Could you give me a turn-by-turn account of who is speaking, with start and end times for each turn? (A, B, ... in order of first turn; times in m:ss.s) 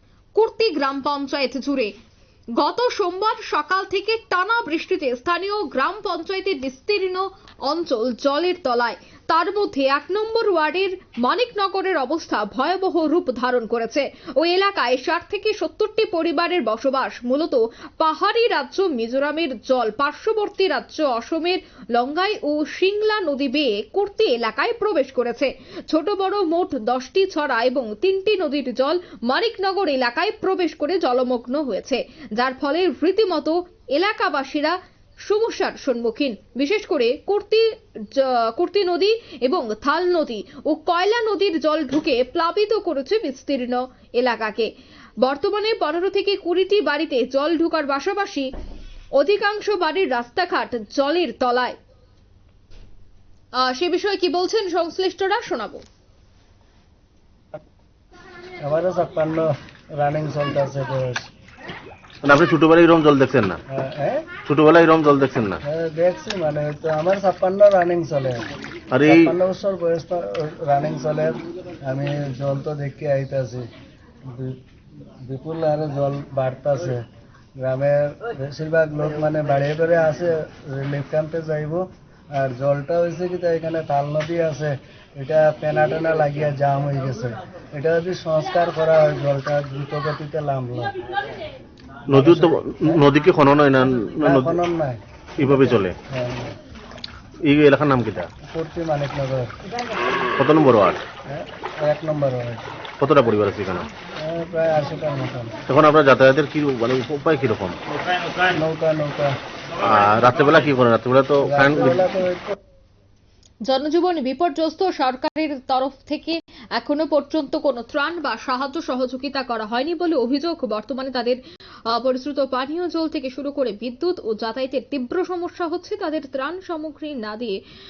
0:00.4-0:01.9 A
0:02.6-0:44.7 A
0:45.2-0:48.5 A
0:49.2-0:51.8 A
0:53.5-0:55.8 A
0:58.6-1:01.3 B
1:02.2-1:03.6 C
1:03.7-1:04.3 B
1:04.5-1:05.6 C
1:05.6-1:08.5 B
1:08.9-1:09.3 C
1:09.0-1:13.7 B
1:14.3-1:14.6 B
1:15.3-1:17.0 B
1:17.6-1:30.9 B
1:32.1-1:34.6 C
1:32.1-1:33.0 B
1:34.2-1:36.5 B
1:35.4-1:36.0 C
1:37.4-1:38.3 C
1:38.4-1:39.5 B
1:40.4-1:41.0 C
1:41.3-1:42.6 B
1:43.0-1:43.9 C
1:44.2-1:45.6 B
1:45.7-1:47.8 C
1:48.4-1:49.4 B
1:49.8-1:52.0 C
1:51.4-1:52.6 B
1:53.6-2:07.6 A